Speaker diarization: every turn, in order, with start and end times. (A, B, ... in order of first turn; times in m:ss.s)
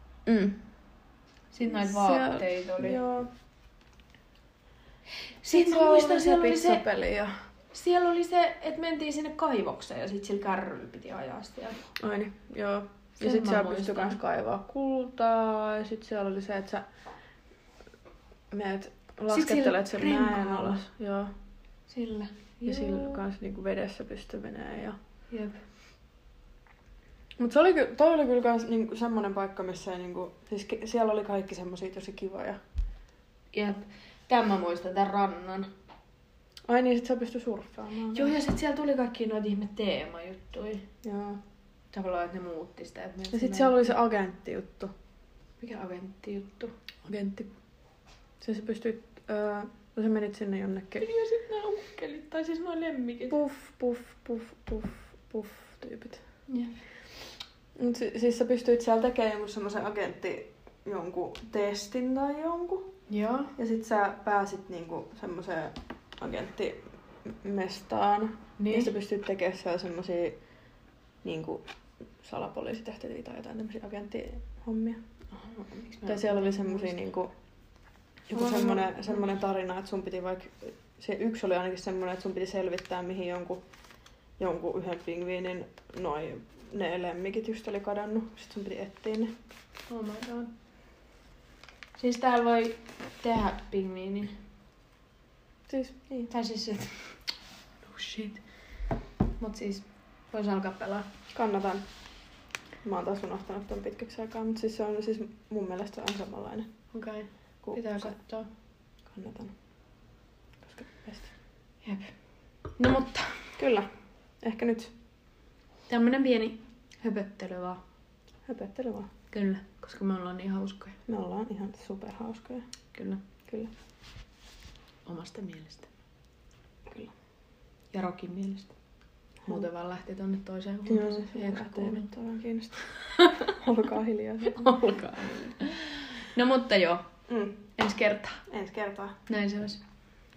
0:00.2-0:00.6 A
0:01.5-0:03.0 B
0:01.6-0:03.3 A
0:05.4-0:06.8 B
0:05.5-0:07.4 A
0:07.7-0:11.8 B
0:12.0-0:16.9 A
0:13.2-0:14.2 B
0:18.5-0:21.3 A
0:19.3-0:20.8 B
0:21.9-0:23.2 B
0:22.6-0:25.0 A
0:25.3-0:25.6 B
0:27.4-0:32.6 A
0:33.5-0:35.7 B
0:36.7-0:38.3 A
0:38.1-0:40.9 B
0:41.0-0:41.4 A
0:41.9-0:43.9 B
0:43.3-0:44.9 A
0:45.6-0:46.7 B
0:47.0-0:47.5 A
0:48.4-0:51.0 A
0:51.0-0:53.4 B
0:53.3-0:56.2 A
0:56.5-0:56.7 B
0:57.8-1:02.9 A
1:03.1-1:03.5 B
1:03.6-1:10.4 A
1:08.6-1:08.9 B
1:11.2-1:11.6 A
1:12.2-1:15.0 A
1:15.3-1:17.0 B
1:16.0-1:17.3 A
1:18.3-1:23.6 A
1:18.3-1:19.2 B
1:24.4-1:29.3 A
1:29.9-1:30.5 B
1:32.0-1:34.3 B
1:35.7-1:36.3 A
1:36.3-1:37.2 B
1:37.8-1:38.4 B
1:39.4-1:41.1 B
1:41.3-1:41.8 A
1:42.8-1:46.7 A
1:46.9-1:48.5 B
1:47.6-1:48.2 A
1:49.1-1:49.5 A
1:50.6-1:51.3 A
1:51.8-1:52.1 B
1:52.8-1:53.5 B
1:53.6-1:53.9 A
1:54.4-1:54.9 A
1:55.9-1:57.8 B
1:58.4-1:59.1 A
1:59.3-2:01.0 B
2:01.1-2:02.7 A
2:02.9-2:03.2 B
2:05.0-2:05.9 B
2:06.8-2:07.1 A
2:07.9-2:08.7 B
2:09.4-2:12.1 B
2:10.8-2:12.8 A
2:13.2-2:13.5 B
2:13.5-2:14.7 A
2:14.5-2:17.0 B
2:17.3-2:17.6 A
2:17.8-2:18.4 B
2:18.5-2:19.2 A
2:19.3-2:19.8 B